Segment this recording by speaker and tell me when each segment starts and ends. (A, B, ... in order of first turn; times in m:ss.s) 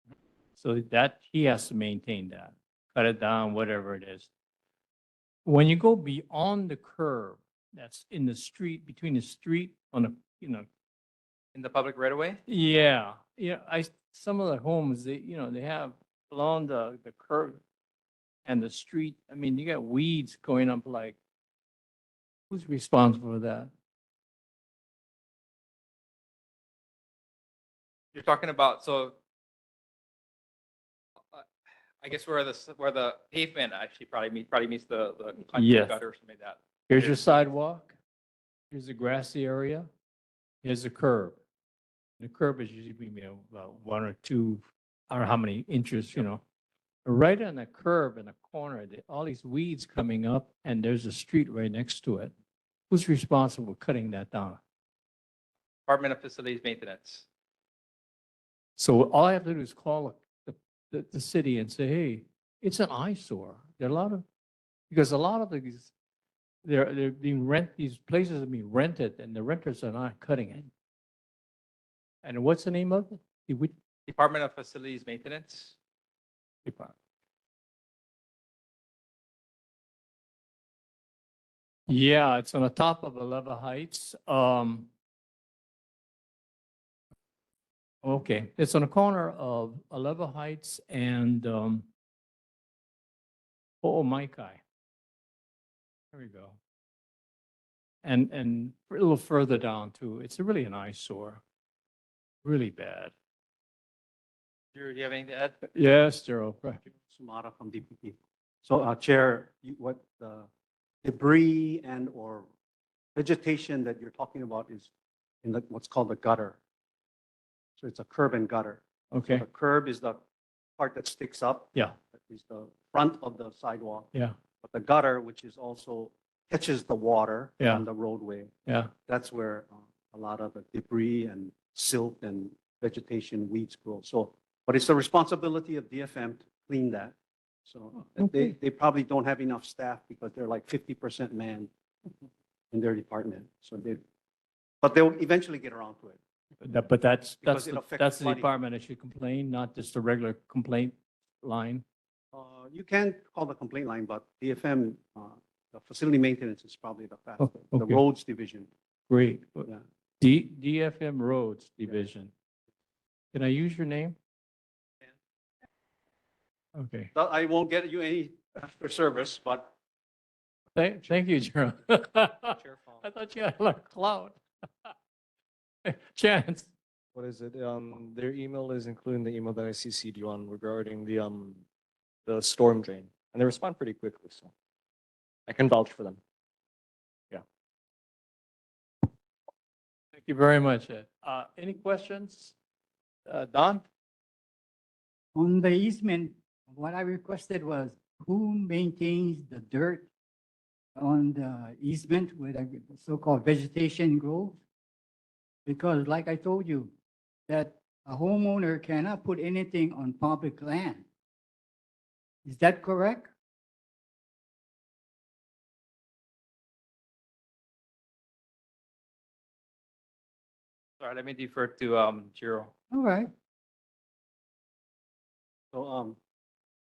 0:00.6-0:04.3 A
0:05.4-0:10.7 A
0:11.6-0:12.4 B
0:12.5-0:17.6 A
0:18.5-0:21.2 A
0:22.5-0:23.7 A
0:28.1-0:29.2 B
0:32.0-0:37.2 B
0:35.6-0:36.0 A
0:36.9-0:38.0 A
0:38.7-0:39.9 A
0:40.6-0:41.4 A
0:42.2-0:46.4 A
0:47.0-0:52.3 A
0:52.9-0:54.6 A
0:55.9-0:57.3 B
0:58.8-1:04.2 A
1:04.9-1:05.9 A
1:06.6-1:10.7 A
1:12.2-1:13.7 A
1:14.1-1:15.8 B
1:16.7-1:16.9 A
1:21.9-1:24.9 A
1:28.0-1:31.9 A
1:33.8-1:34.6 A
1:36.1-1:36.6 A
1:38.0-1:41.4 A
1:42.4-1:43.1 A
1:44.8-1:45.6 B
1:45.7-1:46.8 A
1:47.1-1:50.5 C
1:51.0-1:52.5 C
1:53.2-1:54.9 C
1:55.4-1:56.6 C
1:57.8-2:00.2 C
1:59.1-1:59.4 A
2:00.8-2:04.1 C
2:04.6-2:08.5 C
2:09.1-2:17.2 C
2:17.7-2:21.7 C
2:18.2-2:18.5 A
2:22.7-2:24.0 C
2:24.8-2:26.2 C
2:26.6-2:31.8 A
2:27.4-2:28.5 C
2:32.3-2:38.7 C
2:37.4-2:38.0 A
2:39.1-2:39.7 A
2:40.2-2:42.3 A
2:43.3-2:44.2 A
2:46.8-2:47.1 A
2:47.1-2:49.7 C
2:50.8-2:54.9 A
2:55.8-2:56.7 A
2:57.2-3:01.6 D
3:02.3-3:04.5 D
3:05.5-3:06.2 D
3:10.2-3:12.6 A
3:13.3-3:13.8 A
3:15.4-3:20.1 E
3:21.0-3:24.6 E
3:25.7-3:26.9 E
3:27.5-3:31.0 E
3:32.4-3:33.3 E
3:41.0-3:42.7 B
3:42.9-3:43.3 E
3:45.7-3:46.2 C